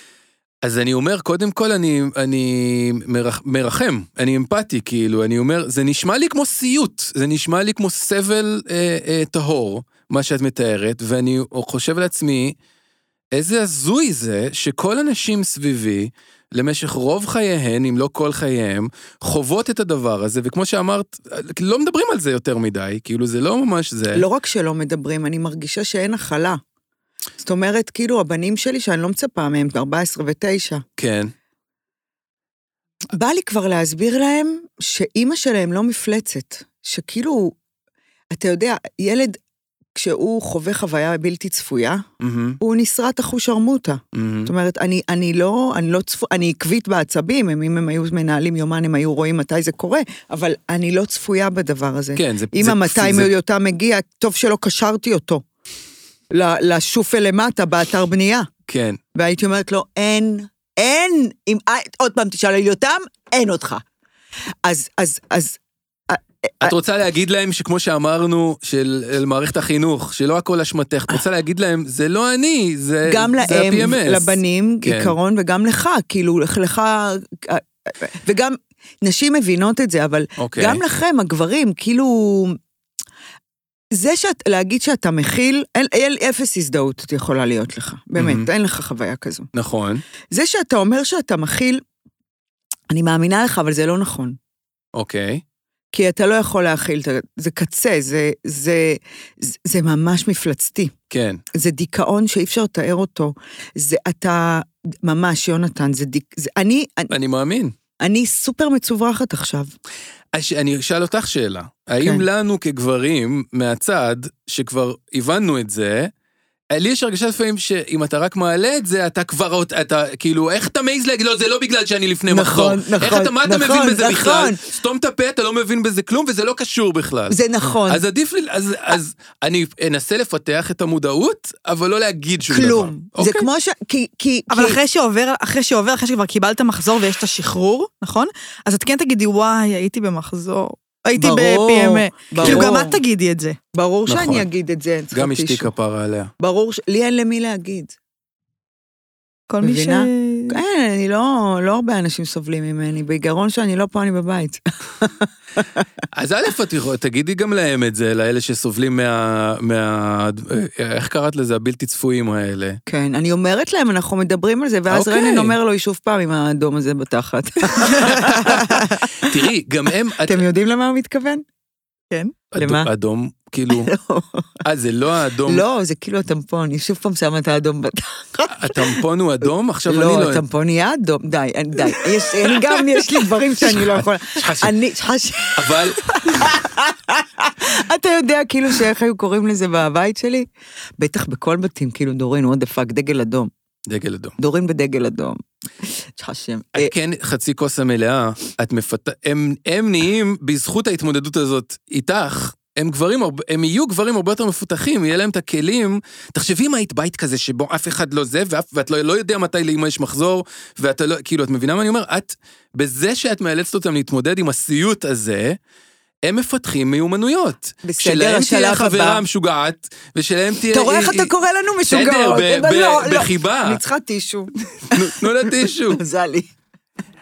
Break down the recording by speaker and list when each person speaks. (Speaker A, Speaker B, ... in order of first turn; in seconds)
Speaker A: 0.6-12.6, 13.3-24.2, 31.0-31.3, 42.2-42.6, 44.1-44.5, 52.1-53.3, 58.7-59.0, 66.6-75.1, 80.4-80.8, 88.2-88.5, 89.5-90.0, 94.9-95.4, 101.1-101.4, 107.1-107.7, 110.3-116.1, 116.7-133.5, 142.4-142.7, 144.1-144.4, 145.1-146.3, 156.1-162.8, 164.9-165.6, 168.0-170.4, 172.5-173.9, 174.6-175.6, 178.5-180.4, 183.6-184.7, 185.5-186.5, 193.9-194.3, 196.7-215.6, 216.2-221.3, 221.8-223.8, 224.8-226.0
Speaker B: 24.1-26.6, 27.4-30.8, 33.1-37.6, 38.3-39.4, 39.9-42.0, 42.6-55.4, 56.3-58.5, 59.1-63.8, 64.6-65.6, 66.1-66.7, 73.0-82.6, 83.9-89.5, 90.3-91.8, 92.9-94.4, 95.9-100.9, 101.5-107.1, 108.0-109.7, 122.3-124.6, 127.3-128.0, 132.5-134.8, 141.2-143.0, 143.7-145.7, 146.4-147.9, 149.6-155.8, 162.9-169.3, 170.2-171.4, 172.6-172.9, 173.7-174.5, 175.5-179.0, 179.9-190.5, 191.0-193.5, 194.4-195.4, 196.2-196.9, 217.8-219.2, 220.7-226.5
Speaker C: 134.5-143.6, 149.5-150.6